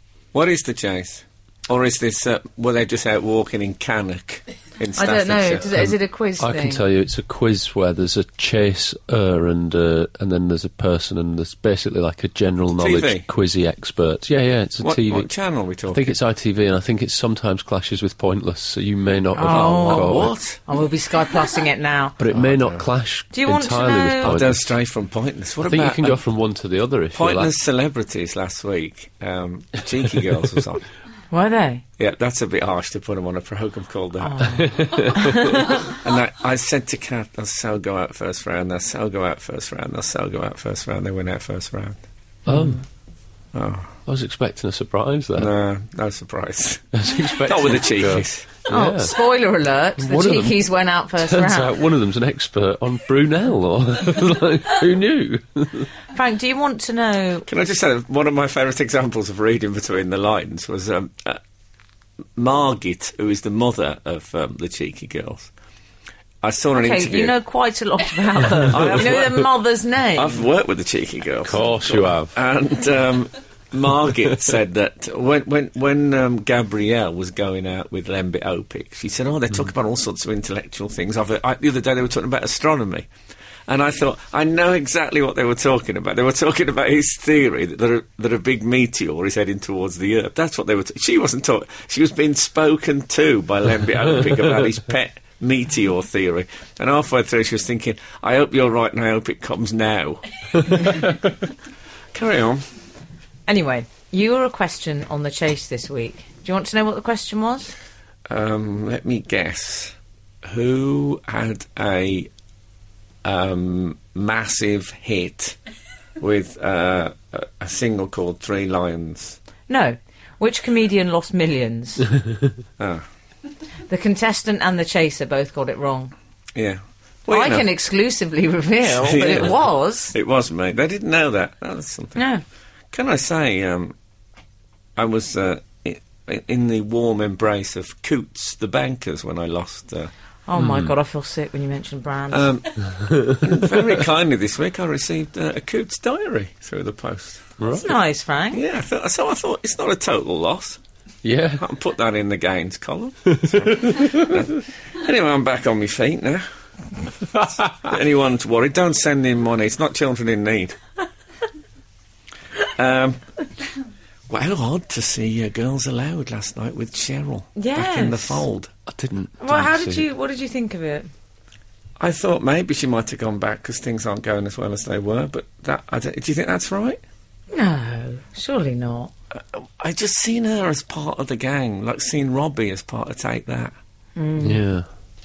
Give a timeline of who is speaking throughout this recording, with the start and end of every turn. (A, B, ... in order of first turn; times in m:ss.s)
0:00.3-0:05.6 A
0:05.0-0:06.8 B
0:05.8-0:15.3 C
0:12.7-0:13.2 A
0:14.8-0:16.1 A
0:15.9-0:20.3 C
0:19.3-0:22.2 B
0:19.4-0:20.6 A
0:22.2-0:24.7 C
0:22.3-0:22.9 A
0:23.3-0:24.3 B
0:24.2-0:26.2 A
0:25.6-0:27.5 C
0:27.1-0:30.9 A
0:31.3-0:31.8 B
0:32.0-0:34.6 A
0:34.2-0:35.8 B
0:34.6-0:35.6 C
0:35.9-0:42.0 A
0:42.4-0:42.8 C
0:42.5-0:42.8 B
0:43.5-0:43.9 A
0:44.0-0:45.5 C
0:45.4-0:46.9 A
0:46.9-0:49.1 C
0:47.4-0:48.4 A
0:48.7-0:51.8 B
0:50.0-0:50.6 C
0:51.2-0:55.9 C
0:56.1-0:57.5 B
0:57.5-1:01.4 A
1:02.4-1:05.5 A
1:06.4-1:07.4 A
1:06.7-1:10.4 B
1:08.7-1:09.5 A
1:10.1-1:23.1 A
1:11.4-1:12.3 C
1:23.7-1:41.1 A
1:42.1-1:42.6 A
1:43.5-1:47.7 B
1:48.3-1:52.3 A
1:53.2-1:55.6 A
1:56.2-1:59.4 A
1:59.7-2:02.1 B
2:02.8-2:03.0 A
2:03.9-2:06.1 B
2:06.5-2:07.6 A
2:07.3-2:10.1 B
2:08.9-2:09.6 A
2:10.1-2:12.2 A
2:12.2-2:12.4 B
2:12.9-2:13.9 A
2:15.0-2:20.1 A
2:20.5-2:22.5 B
2:20.6-2:20.9 C
2:22.3-2:27.5 A
2:23.0-2:23.9 C
2:27.6-2:27.9 C
2:27.7-2:28.6 B
2:28.5-2:30.8 A
2:31.2-2:31.6 C
2:31.6-2:36.4 A
2:33.3-2:34.4 C
2:37.3-2:40.8 A
2:42.7-2:43.2 A
2:44.3-2:48.7 A
2:47.6-2:48.4 B
2:48.9-2:50.0 C
2:49.4-2:51.1 B
2:52.0-2:57.0 A
2:57.5-2:59.1 B
2:59.3-3:03.7 A
3:04.2-3:04.6 B
3:04.4-3:04.8 C